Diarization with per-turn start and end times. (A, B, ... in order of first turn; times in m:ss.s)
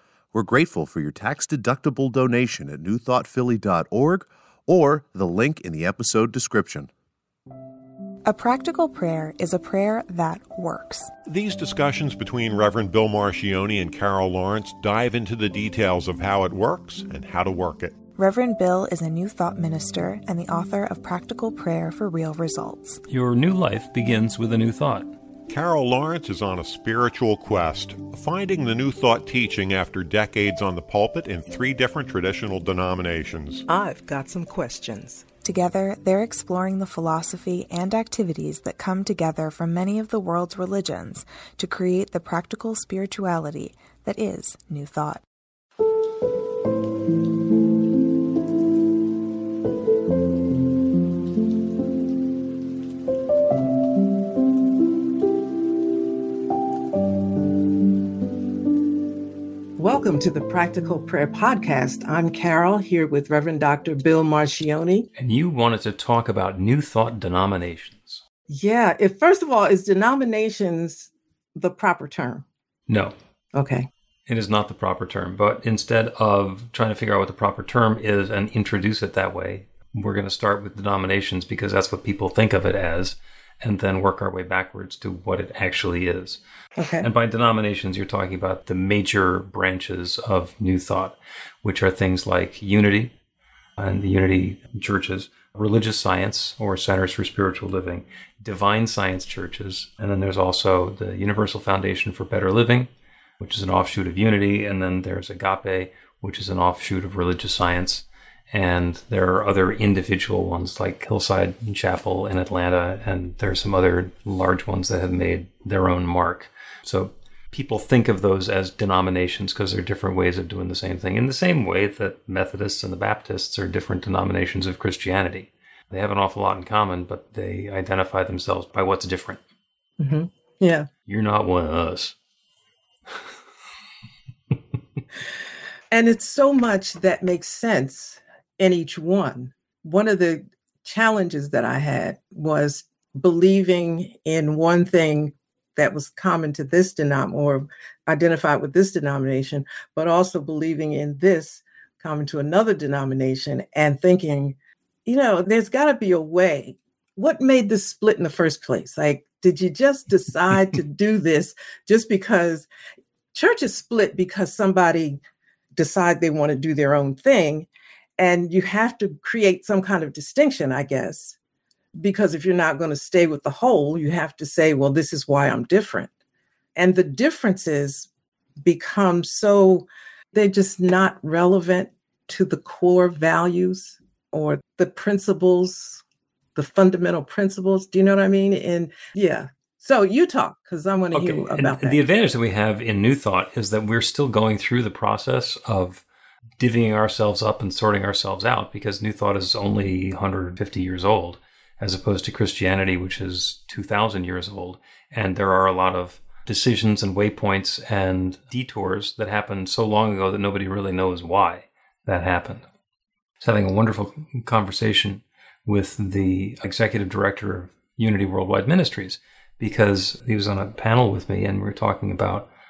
0:00.3-0:06.9 A
0:08.2-0:11.1 B
0:11.3-0:17.9 C
0:18.2-0:23.0 B
0:23.1-0:25.1 D
0:25.5-0:33.6 C
0:33.7-0:35.2 E
0:35.4-0:45.2 B
0:59.8-1:05.1 E
1:05.2-1:08.2 D
1:08.5-1:12.4 E
1:12.9-1:13.1 D
1:13.5-1:13.9 E
1:14.3-1:26.4 D
1:26.8-1:27.1 E
1:27.0-1:33.1 D
1:33.8-1:42.9 D
1:43.4-2:09.4 D
2:10.0-2:10.9 E
2:11.1-2:12.2 D
2:15.9-2:34.5 E
2:35.0-2:42.7 E
2:43.3-2:45.2 E
2:45.8-2:51.4 E
2:52.0-2:56.1 E
2:56.7-2:58.1 E
2:58.6-3:06.0 E
3:06.6-3:12.0 E
3:11.1-3:16.0 D
3:16.6-3:32.6 D
3:33.4-3:42.5 D